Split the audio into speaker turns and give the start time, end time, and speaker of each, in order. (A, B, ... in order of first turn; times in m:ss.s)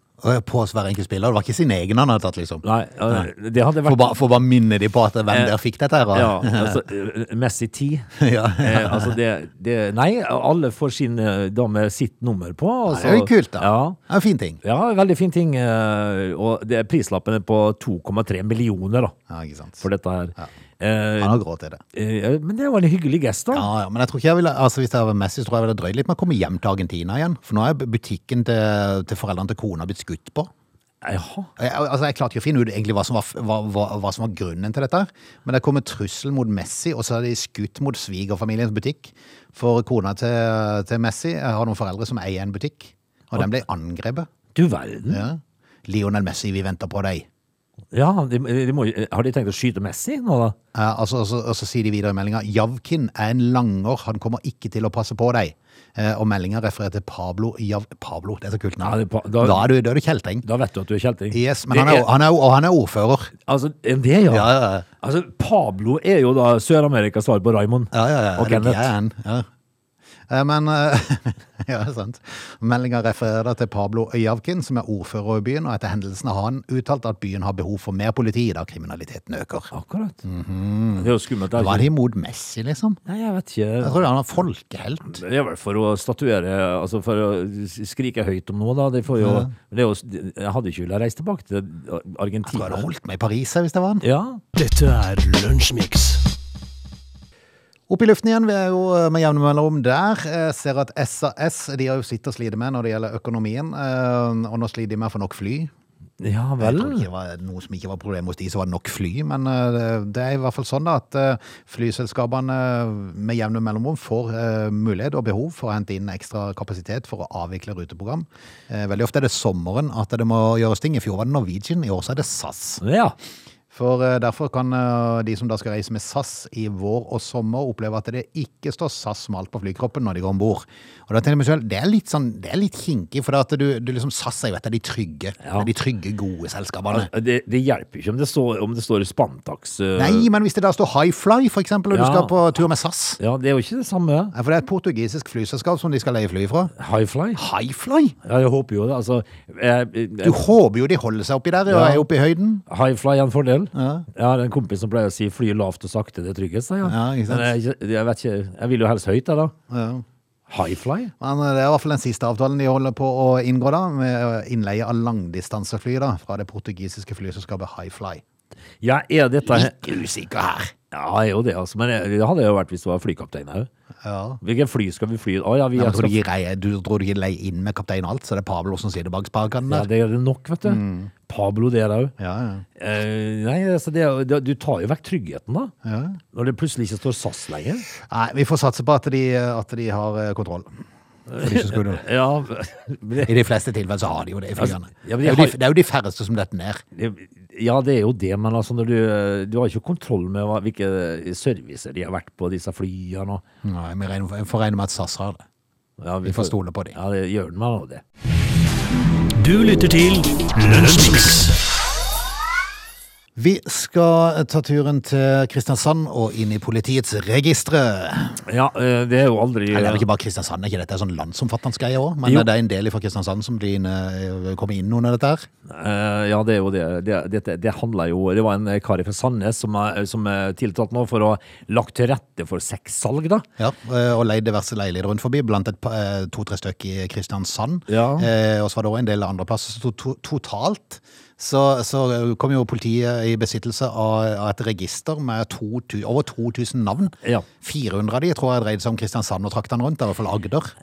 0:00.2-0:03.3 A
0:02.6-0:04.1 B
0:03.8-0:06.8 A
0:05.3-0:05.5 B
0:06.1-0:08.1 B
0:08.2-0:09.2 A
0:08.6-0:14.0 B
0:12.9-0:14.6 A
0:14.6-0:19.2 B
0:19.3-0:19.8 A
0:19.8-0:21.4 B
0:21.2-0:21.8 A
0:21.9-0:23.7 B
0:23.5-0:30.5 A
0:31.0-0:31.5 B
0:31.6-0:44.3 A
0:44.5-0:45.2 B
0:45.1-0:47.2 A
0:47.9-0:50.6 B
0:50.7-1:00.4 A
0:58.8-0:59.7 B
1:00.4-1:02.1 B
1:01.3-1:03.3 A
1:03.4-1:08.9 B
1:04.3-1:04.8 A
1:07.9-1:09.5 A
1:10.3-1:19.7 A
1:19.7-1:20.2 B
1:20.2-1:23.0 A
1:21.0-1:21.9 B
1:23.0-1:24.0 B
1:23.8-1:25.2 A
1:25.1-1:32.9 B
1:29.2-1:29.5 A
1:32.5-1:34.0 A
1:34.0-1:34.4 B
1:34.5-1:36.2 C
1:37.9-1:45.7 A
1:46.2-1:47.1 B
1:46.6-2:02.8 A
2:02.8-2:03.1 B
2:03.7-2:17.1 A
2:15.4-2:15.7 B
2:16.9-2:20.3 B
2:20.0-2:23.2 A
2:21.9-2:22.3 B
2:23.2-2:24.3 B
2:24.3-2:26.7 A
2:26.8-2:27.4 B
2:27.4-2:28.2 A
2:28.2-2:30.4 B
2:30.2-2:32.6 A
2:31.7-2:32.1 B
2:32.7-2:39.5 B
2:33.7-2:34.1 A
2:36.8-2:37.5 A
2:39.7-2:40.0 A
2:40.5-2:41.1 B
2:41.2-2:48.2 A
2:48.8-2:49.7 B
2:49.4-2:50.7 A
2:50.9-2:53.7 B
2:54.0-2:54.4 A
2:54.4-2:56.2 B
2:55.8-2:59.9 A
2:59.7-3:02.1 B
3:00.6-3:01.1 A
3:02.2-3:02.6 A
3:02.8-3:05.7 B
3:05.8-3:06.2 A
3:06.3-3:07.8 B
3:08.0-3:10.7 A
3:11.3-3:13.3 B
3:11.4-3:12.0 A
3:13.2-3:16.8 A
3:14.6-3:15.6 B
3:16.9-3:23.4 B
3:23.6-3:25.4 A
3:26.0-3:28.0 B
3:26.2-3:27.0 A
3:29.3-3:31.6 C
3:33.4-3:38.4 A
3:38.4-3:40.0 B
3:39.7-3:45.5 A
3:42.2-3:42.5 B
3:45.6-3:53.4 B
3:53.6-4:10.7 A
3:57.9-3:58.3 B